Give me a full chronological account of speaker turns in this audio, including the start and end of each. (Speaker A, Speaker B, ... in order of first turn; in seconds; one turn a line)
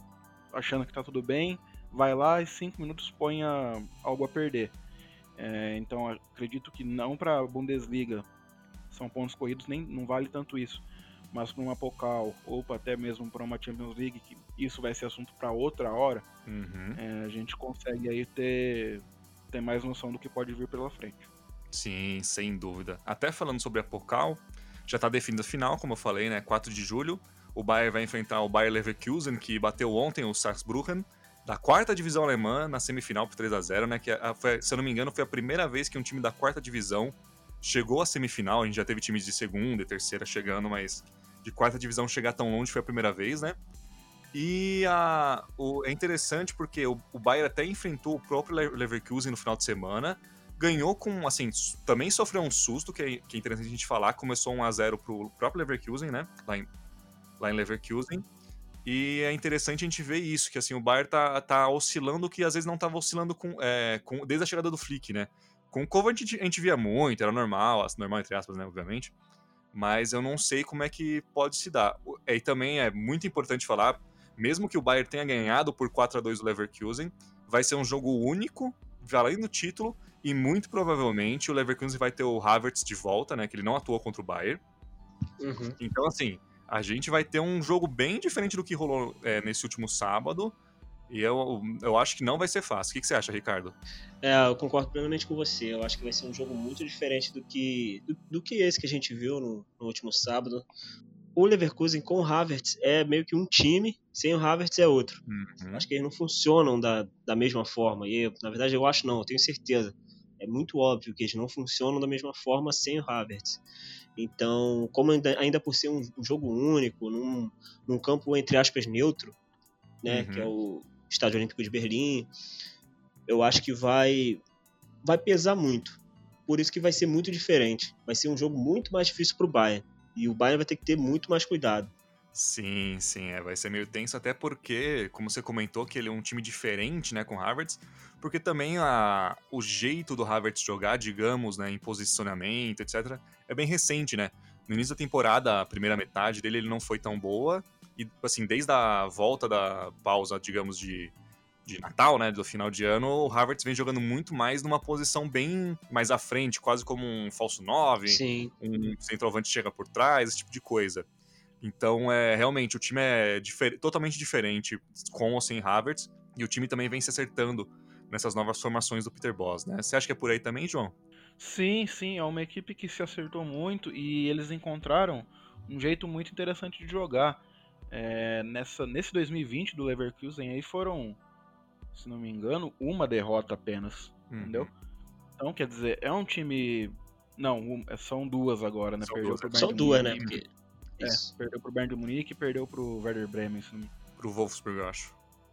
Speaker A: 0.5-4.7
Speaker A: 5.4-8.3
Speaker A: 8.9-16.2
Speaker B: 16.4-17.0
Speaker A: 16.9-21.3
Speaker B: 21.7-43.5
Speaker B: 44.3-56.7
Speaker B: 57.4-58.2
Speaker B: 58.8-69.1
Speaker B: 69.7-84.6
Speaker C: 85.4-85.8
Speaker B: 85.8-90.5
Speaker B: 91.1-93.8
Speaker C: 94.2-100.7
Speaker C: 101.3-105.2
Speaker B: 105.3-105.9
Speaker C: 105.7-113.6
Speaker C: 114.2-119.3
Speaker C: 120.0-122.3
Speaker B: 120.1-120.5
Speaker C: 123.3-124.4
Speaker C: 125.0-131.9
Speaker B: 132.3-151.1
Speaker B: 151.6-161.1
Speaker C: 158.1-158.5
Speaker B: 161.6-170.9
Speaker A: 171.4-181.2
Speaker A: 181.9-184.7
Speaker B: 184.3-184.7
Speaker A: 185.4-190.3
Speaker B: 189.0-190.4
Speaker C: 189.5-190.5
Speaker C: 191.0-191.3
Speaker A: 191.0-193.9
Speaker B: 194.2-195.1